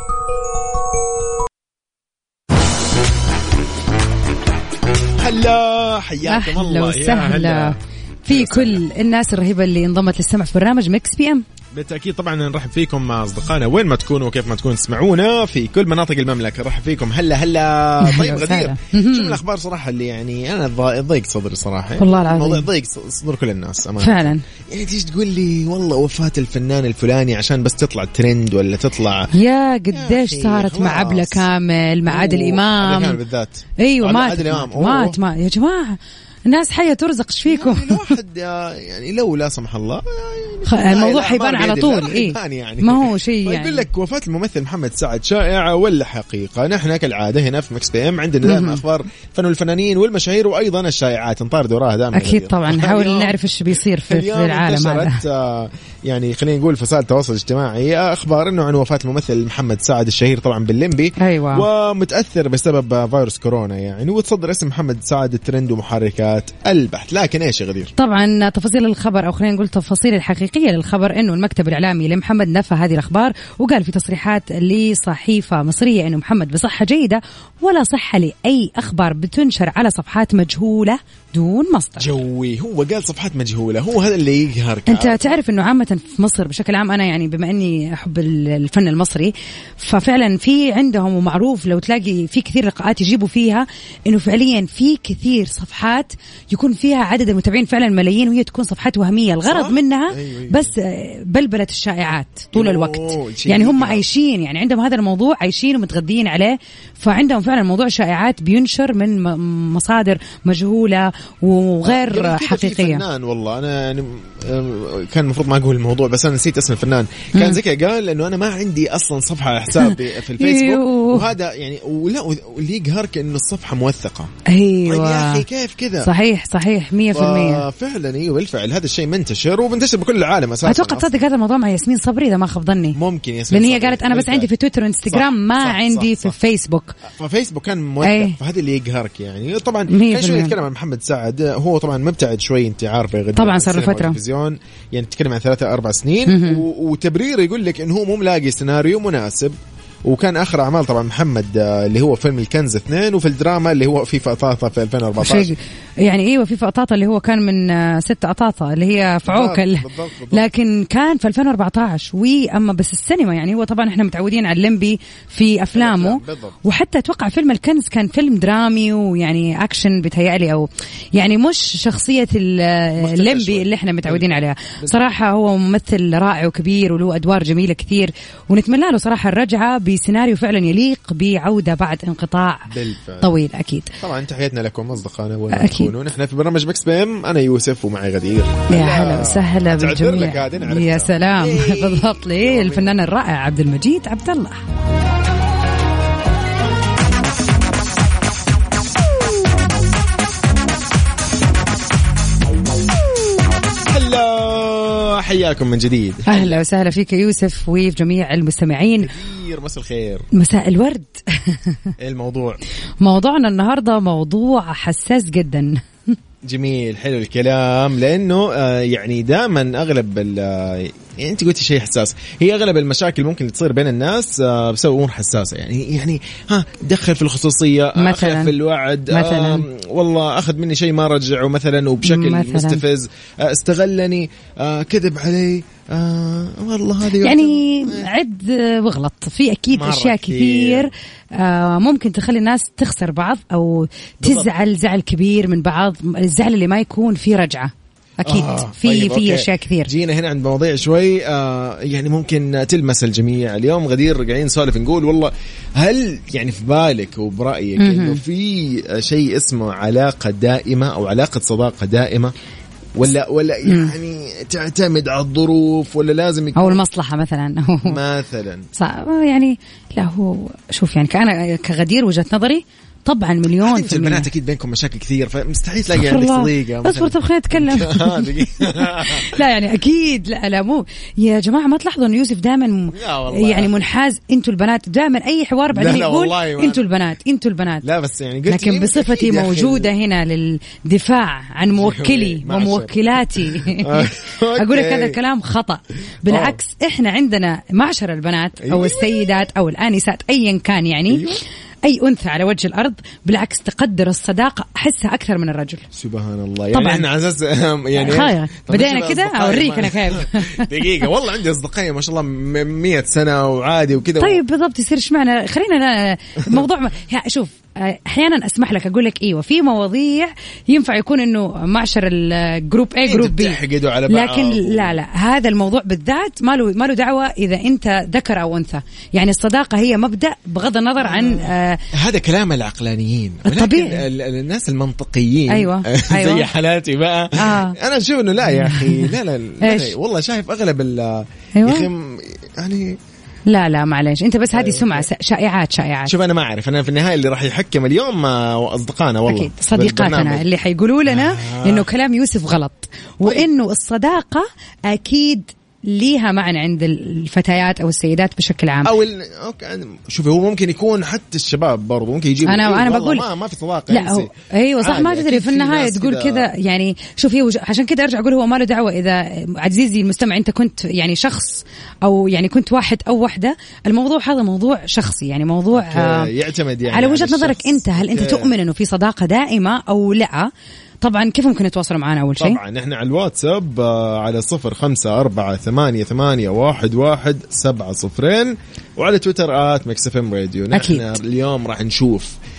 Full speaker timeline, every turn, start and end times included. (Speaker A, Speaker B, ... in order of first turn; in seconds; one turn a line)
Speaker A: 5.2-7.8
Speaker B: 6.2-11.4
Speaker A: 8.3-8.8
Speaker A: 11.7-29.3
Speaker B: 18.0-19.4
Speaker B: 22.0-22.7
Speaker B: 24.0-24.4
Speaker B: 29.3-33.2
Speaker A: 29.9-31.5
Speaker A: 32.1-35.2
Speaker B: 33.8-38.1
Speaker A: 37.5-53.4
Speaker B: 40.7-43.8
Speaker B: 48.4-48.8
Speaker B: 52.1-55.2
Speaker A: 54.1-67.9
Speaker B: 61.2-61.7
Speaker B: 68.0-82.1
Speaker A: 82.0-85.4
Speaker B: 84.9-113.0
Speaker A: 99.4-100.7
Speaker A: 102.5-104.0
Speaker A: 111.8-124.3
Speaker B: 119.8-121.2
Speaker B: 124.5-125.4
Speaker A: 124.9-126.1
Speaker B: 126.0-127.6
Speaker A: 127.1-131.1
Speaker B: 130.6-133.0
Speaker A: 132.9-134.5
Speaker B: 133.5-137.0
Speaker A: 135.1-136.4
Speaker A: 137.1-155.5
Speaker B: 138.0-138.4
Speaker B: 139.9-140.6
Speaker B: 143.4-144.2
Speaker B: 146.3-146.6
Speaker B: 155.2-182.7
Speaker A: 159.2-160.4
Speaker A: 165.7-166.6
Speaker A: 173.0-175.2
Speaker A: 182.7-183.3
Speaker B: 183.2-183.9
Speaker A: 184.0-193.0
Speaker B: 185.5-185.9
Speaker B: 188.7-194.6
Speaker A: 203.9-206.6
Speaker B: 206.3-209.1
Speaker A: 209.0-210.3
Speaker B: 210.3-211.9
Speaker A: 212.0-212.6
Speaker B: 213.0-215.8
Speaker A: 216.4-238.1
Speaker B: 227.9-228.6
Speaker B: 229.1-229.6
Speaker B: 232.0-232.8
Speaker B: 237.2-249.9
Speaker A: 239.7-240.9
Speaker A: 244.2-244.5
Speaker A: 248.2-262.3
Speaker B: 257.8-258.2
Speaker A: 262.9-266.8
Speaker B: 263.7-263.9
Speaker B: 266.6-268.0
Speaker A: 267.8-268.7
Speaker B: 268.8-274.3
Speaker A: 273.6-279.4
Speaker B: 275.9-287.8
Speaker A: 282.9-283.9
Speaker A: 285.7-286.9
Speaker A: 287.8-289.9
Speaker B: 288.5-301.2
Speaker A: 291.7-295.2
Speaker A: 296.2-296.6
Speaker A: 298.6-299.1
Speaker A: 301.1-301.4
Speaker B: 301.8-305.8
Speaker A: 305.9-314.4
Speaker B: 306.7-307.1
Speaker B: 307.9-311.0
Speaker B: 314.2-331.8
Speaker A: 323.1-325.0
Speaker A: 331.0-343.0
Speaker B: 333.4-334.0
Speaker B: 335.5-336.5
Speaker B: 337.4-337.8
Speaker B: 338.5-339.9
Speaker B: 341.6-341.9
Speaker B: 343.5-346.1
Speaker A: 344.5-345.1
Speaker A: 346.1-350.4
Speaker B: 349.3-358.9
Speaker A: 351.1-351.9
Speaker A: 353.2-353.5
Speaker A: 358.8-366.5
Speaker B: 362.4-363.2
Speaker B: 363.9-376.3
Speaker A: 375.7-378.5
Speaker B: 376.9-380.5
Speaker B: 381.0-382.6
Speaker A: 382.4-392.4
Speaker B: 390.7-391.2